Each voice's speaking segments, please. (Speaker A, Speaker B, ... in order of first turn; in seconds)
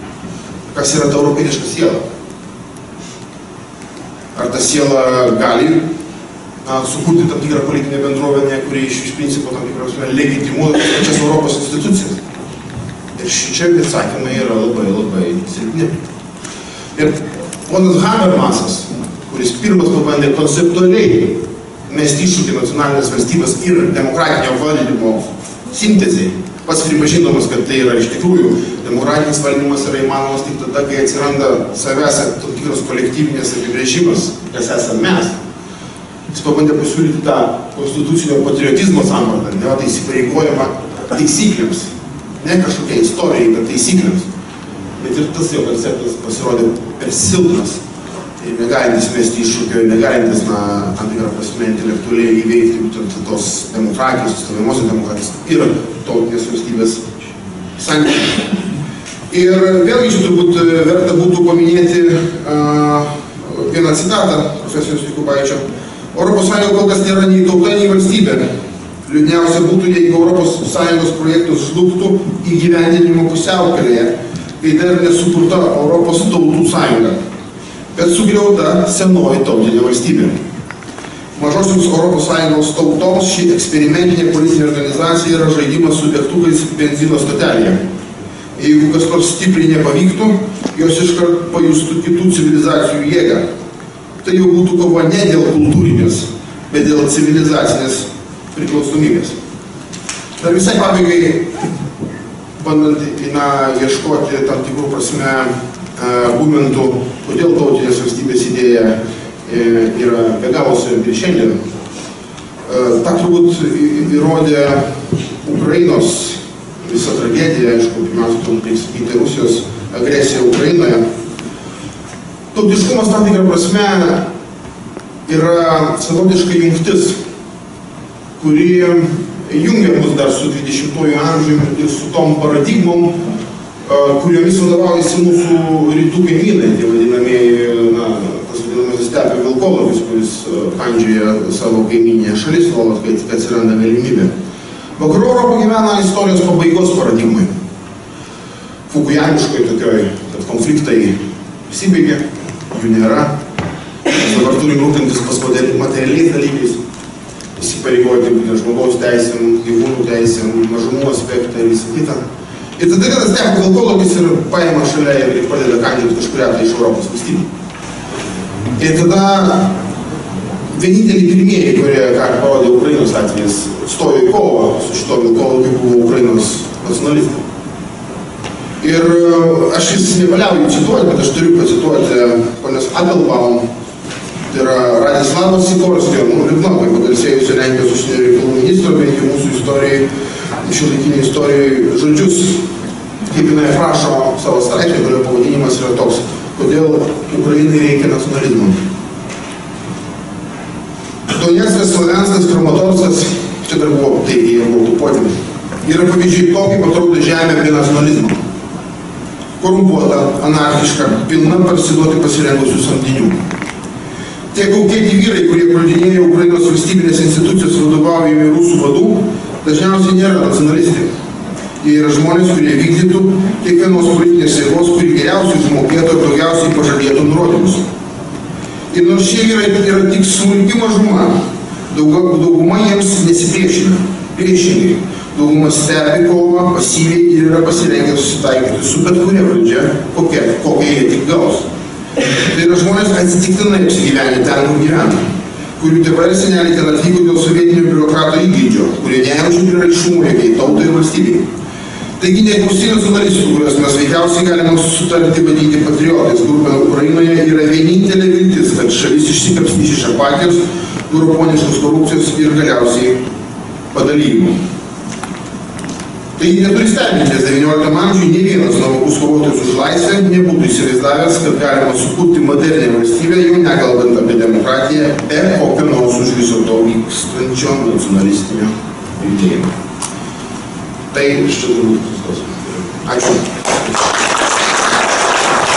Speaker A: 0.7-2.0, 4.3-5.9, 6.6-12.2, 13.2-15.9, 16.9-35.4, 36.3-44.3, 45.0-47.8, 48.4-57.1, 57.8-58.5, 59.3-65.6, 66.1-68.5, 69.0-77.2, 77.9-80.4, 81.3-87.8, 88.6-93.5, 94.2-99.4, 100.4-101.6, 102.6-111.6, 112.7-121.0, 122.5-124.3, 125.3-127.2, 128.4-133.2, 133.8-144.3, 145.0-147.5, 148.9-153.4, 154.1-156.8, 157.6-162.2, 162.8-167.5, 168.8-169.8, 170.7-177.4, 178.8-183.7, 184.5-190.1, 190.6-192.7, 193.3-198.8, 201.3-208.4, 209.6-213.4, 214.5-221.1, 221.8-227.9, 228.9-241.7, 242.4-245.2, 245.8-251.5, 252.2-263.2, 263.9-264.6, 266.4-279.7, 281.1-283.9